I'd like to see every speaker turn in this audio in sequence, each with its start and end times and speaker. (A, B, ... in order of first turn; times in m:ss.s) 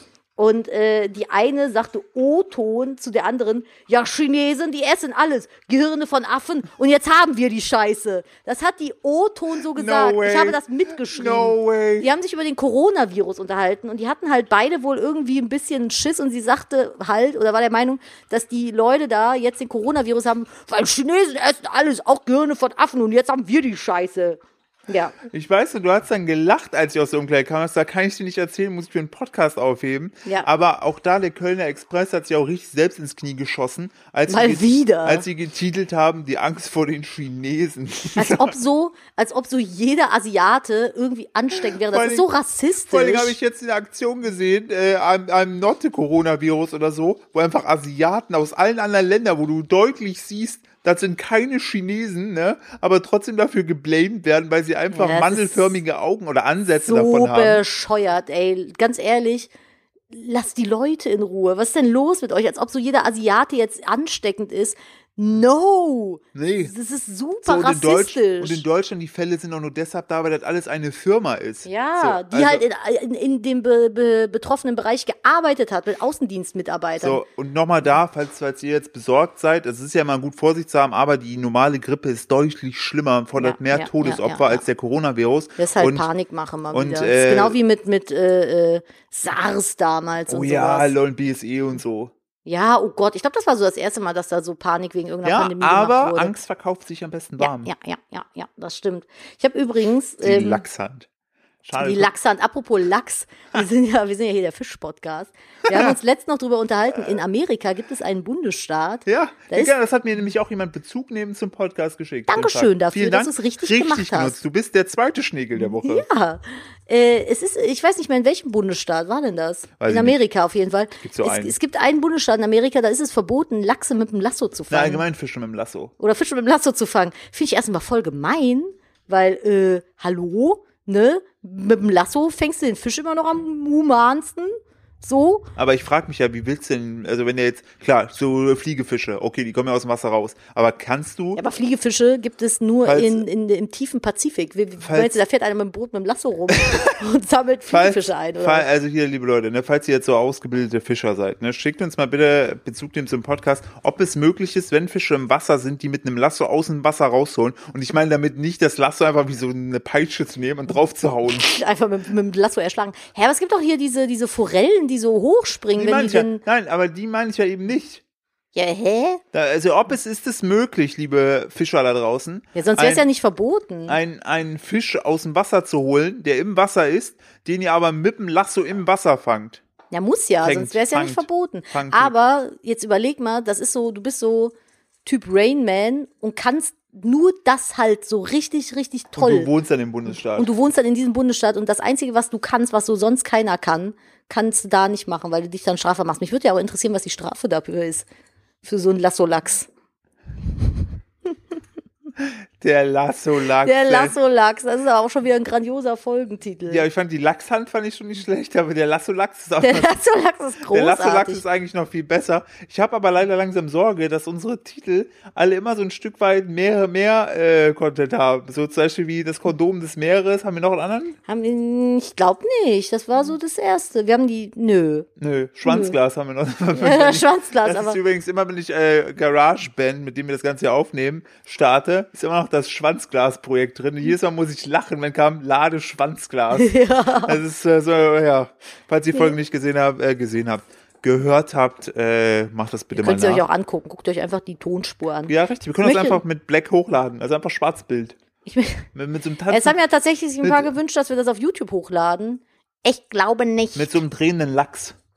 0:00.4-0:25.2 A
0:09.7-0:12.1 B
0:25.3-0:38.6 B
0:34.3-0:35.3 A
0:38.2-0:43.4 A
0:41.5-0:42.3 B
0:42.8-0:57.6 B
0:54.9-0:55.8 A
0:56.8-0:59.5 A
1:00.1-1:08.6 A
1:06.4-1:06.7 B
1:07.4-1:12.6 B
1:11.6-1:17.2 A
1:17.0-1:26.1 B
1:23.4-1:24.6 A
1:25.6-1:30.9 A
1:26.7-1:27.6 B
1:30.3-1:32.1 B
1:32.5-1:36.4 A
1:35.2-1:37.7 B
1:37.4-1:40.6 A
1:40.2-1:41.1 B
1:41.6-1:42.1 B
1:41.8-1:49.7 A
1:45.7-1:45.9 B
1:49.1-1:56.0 B
1:52.3-1:54.4 A
1:55.6-2:05.0 A
1:59.8-2:00.2 B
2:01.0-2:01.6 B
2:04.7-2:05.9 B
2:06.0-2:15.5 A
2:15.6-2:21.4 B
2:21.4-2:28.7 A
2:22.8-2:23.3 B
2:24.8-2:25.2 B
2:27.7-2:41.6 B
2:41.3-2:46.4 A
2:45.8-2:48.0 B
2:48.6-2:49.2 A
2:49.3-2:53.0 B
2:52.6-2:54.0 A
2:53.9-2:59.6 B
2:59.9-3:04.5 A
3:00.4-3:02.1 B
3:05.0-3:09.5 A
3:09.2-3:10.5 B
3:10.4-3:18.1 A
3:18.6-3:19.7 A
3:22.2-3:24.2 B
3:23.6-3:26.9 A
3:26.7-3:30.0 B
3:29.6-3:31.4 A
3:30.7-3:41.2 B
3:41.3-3:45.1 A
3:45.2-4:03.4 B
3:45.6-3:46.0 A
3:46.7-3:48.0 A
3:56.6-3:57.4 A
4:03.0-4:06.2 A
4:05.3-4:08.2 B
4:08.5-4:08.9 A
4:08.9-4:09.8 B
4:09.5-4:14.0 A
4:10.4-4:10.7 B
4:13.8-4:15.0 B